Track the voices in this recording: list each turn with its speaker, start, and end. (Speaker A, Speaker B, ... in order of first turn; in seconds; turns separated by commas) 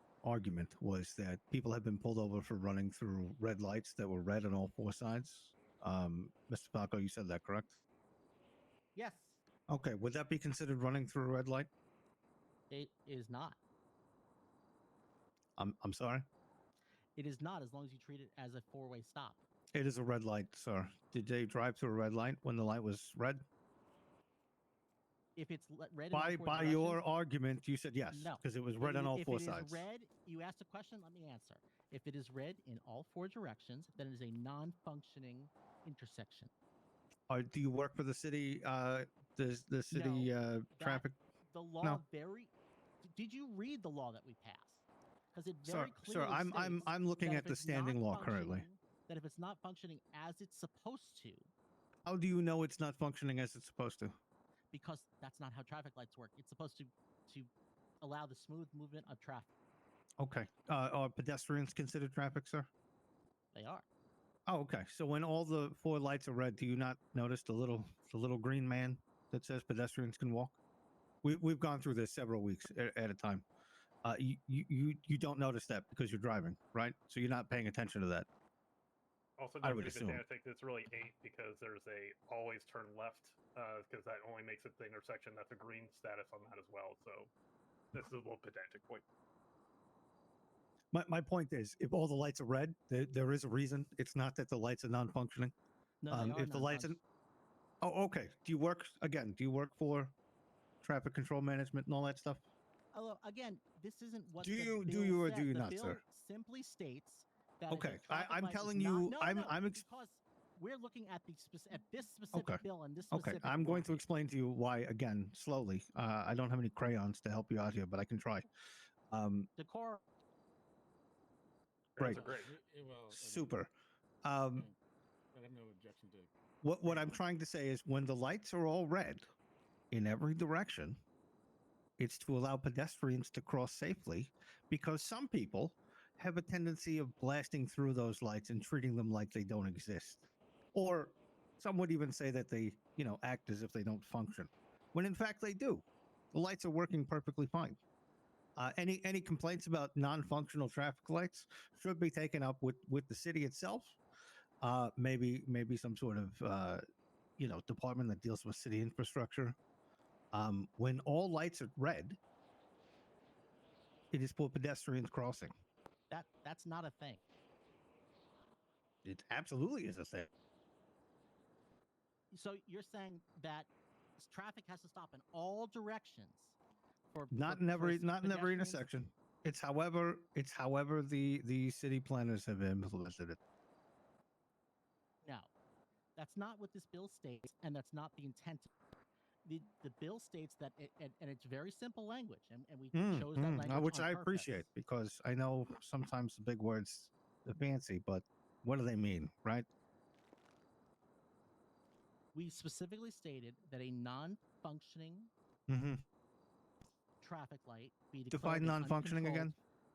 Speaker A: 0.2-7.8, Speaker B: 8.9-9.4, Speaker A: 9.7-11.7, Speaker B: 12.7-13.6, Speaker A: 15.6-16.2, Speaker B: 17.2-19.4, Speaker A: 19.7-23.4, Speaker B: 25.4-27.0, Speaker A: 26.1-29.9, Speaker B: 28.1-36.5, Speaker A: 37.3-41.2, Speaker B: 39.9-42.5, Speaker B: 43.0-51.5, Speaker A: 45.6-48.6, Speaker A: 52.1-54.2, Speaker B: 54.7-59.5, Speaker A: 60.2-62.7, Speaker B: 63.5-63.9, Speaker A: 64.5-70.6, Speaker A: 71.2-73.5, Speaker A: 74.0-78.3, Speaker C: 79.4-87.3, Speaker A: 79.6-80.2, Speaker C: 87.9-89.0, Speaker A: 90.9-95.5, Speaker B: 96.0-97.0, Speaker A: 96.1-97.0, Speaker A: 97.8-100.1, Speaker A: 100.8-102.4, Speaker B: 102.9-114.0, Speaker A: 104.4-106.0, Speaker A: 107.7-109.8, Speaker A: 112.3-118.5, Speaker A: 119.1-119.5, Speaker B: 119.6-120.0, Speaker C: 122.0-122.5, Speaker A: 122.0-122.3, Speaker D: 122.0-123.5, Speaker A: 123.1-123.7, Speaker A: 124.2-124.7, Speaker D: 125.3-126.3, Speaker A: 126.6-129.3, Speaker D: 126.8-127.2, Speaker A: 129.9-131.0, Speaker A: 132.0-147.8, Speaker A: 148.6-154.0, Speaker A: 154.6-156.8, Speaker A: 157.4-159.6, Speaker A: 160.3-162.2, Speaker A: 164.1-165.5, Speaker B: 166.1-167.2, Speaker A: 169.1-170.3, Speaker B: 172.3-176.6, Speaker B: 177.1-178.8, Speaker A: 177.3-183.4, Speaker B: 185.2-185.5, Speaker B: 186.2-188.7, Speaker B: 189.4-194.7, Speaker A: 192.9-199.7, Speaker B: 202.3-205.3, Speaker A: 205.7-206.0, Speaker B: 207.2-209.6, Speaker A: 208.3-209.5